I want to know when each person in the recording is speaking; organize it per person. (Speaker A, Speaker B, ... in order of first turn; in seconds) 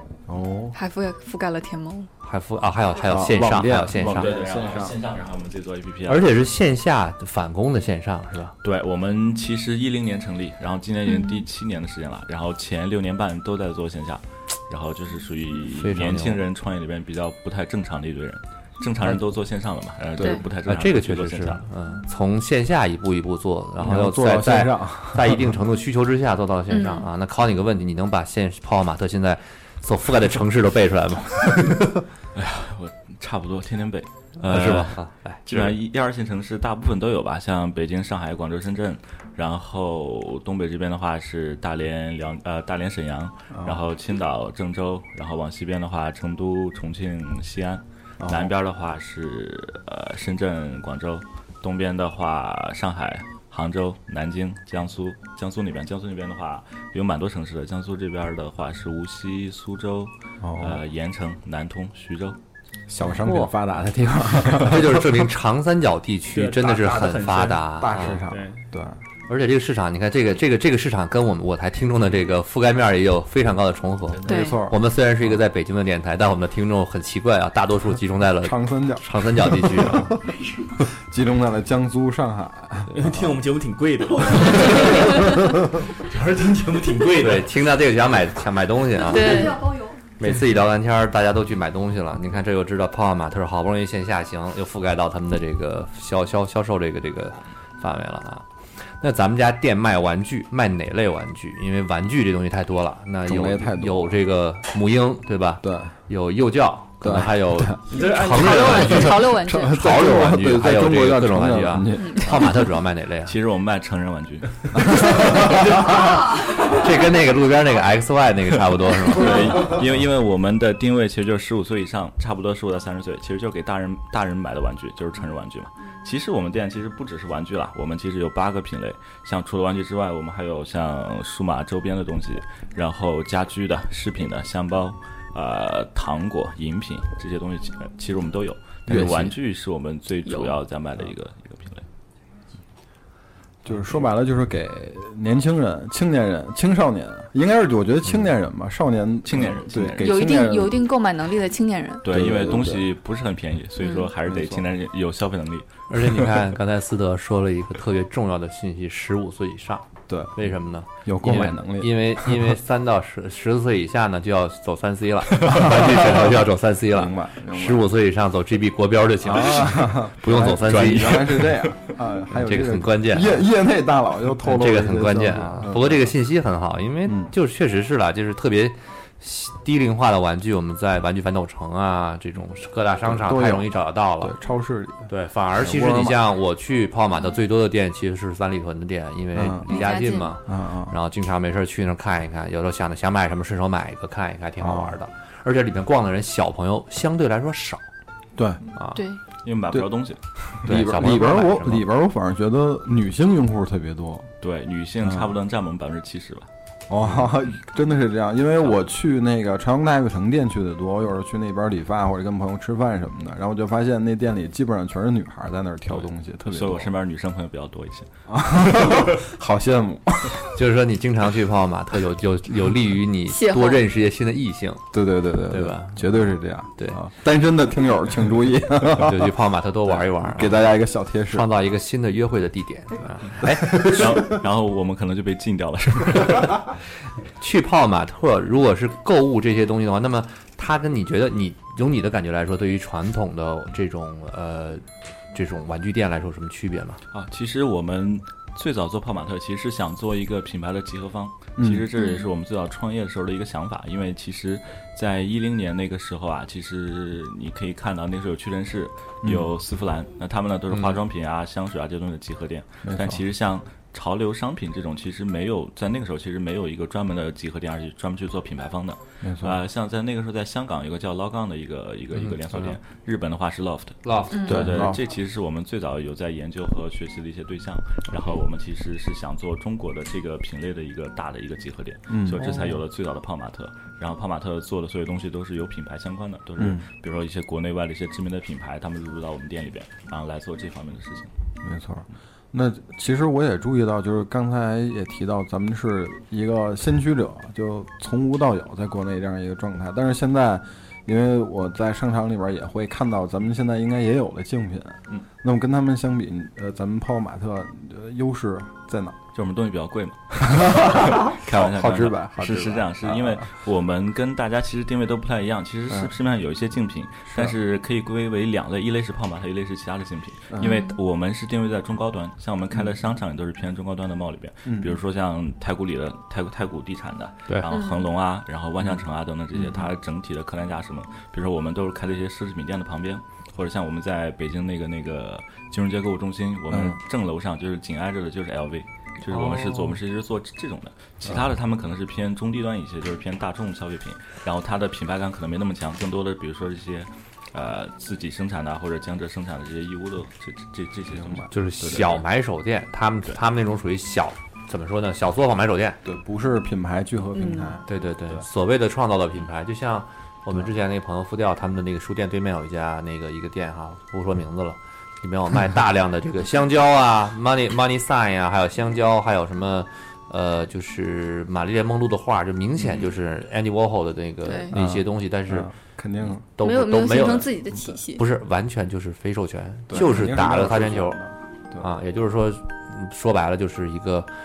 Speaker A: 0.3-0.8, 3.0-5.0, 23.8-25.6, 43.5-43.8, 48.2-48.5, 60.4-60.8, 62.9-65.3, 67.8-69.0, 74.2-74.8, 78.4-83.3, 103.2-104.1, 105.6-105.9, 107.0-107.8, 109.3-112.3, 114.7-116.0, 138.9-139.4, 143.6-150.8, 152.1-152.9, 154.2-154.6, 160.1-160.4, 161.1-162.5, 165.4-167.9, 169.2-176.1, 177.1-177.3, 183.1-183.7, 184.2-186.2, 189.4-189.8, 190.5-190.9, 194.6-194.9, 198.4-198.6, 200.5-204.3, 205.0-205.3, 206.9-216.9, 218.3-220.4, 224.9-229.3, 229.9-231.5, 233.4-234.2, 251.6-251.9, 262.8-263.2, 269.2-269.6, 274.5-275.0, 282.1-282.7, 286.6-286.8, 291.6-309.2, 310.4-313.4, 317.3-317.6, 324.7-324.9, 329.5-329.9, 336.7-337.0, 351.1-352.1, 356.1-358.4, 374.7-376.4, 379.9-381.9
Speaker B: 0.7-2.1, 11.1-11.4, 26.7-27.1, 74.3-74.6, 89.0-89.8, 108.5-109.7, 112.0-112.4, 140.2-140.6, 150.0-152.1, 153.8-154.1, 189.7-190.4, 198.9-199.2, 223.3-223.8, 252.0-252.3, 274.3-274.6, 320.6-320.9, 327.7-328.1, 357.4-357.7, 374.4-374.8, 376.6-378.2
Speaker C: 2.2-4.3, 6.1-8.6, 15.8-16.4, 20.6-32.0, 34.4-35.7, 63.2-63.5, 64.5-68.2, 69.3-80.1, 87.2-89.5, 90.2-98.5, 99.0-113.3, 116.6-119.7, 155.9-171.5, 172.4-173.4, 174.4-184.3, 185.1-197.8, 200.7-201.9, 220.6-224.9, 225.5-227.0, 228.8-230.7, 231.3-234.0, 237.4-247.0, 274.1-274.8, 339.3-340.0, 351.5-356.0, 357.9-375.7, 376.6-377.6, 378.2-381.2, 381.8-384.3
Speaker D: 4.0-6.3, 8.6-21.6, 32.4-62.4, 113.2-114.8, 119.1-141.8, 149.2-150.1, 152.0-156.2, 199.4-200.2, 204.4-206.5, 215.9-218.1, 233.9-236.7, 247.1-291.3, 309.3-352.1
Speaker E: 66.3-67.7, 68.2-68.6, 82.9-85.4, 86.0-87.5, 107.9-109.3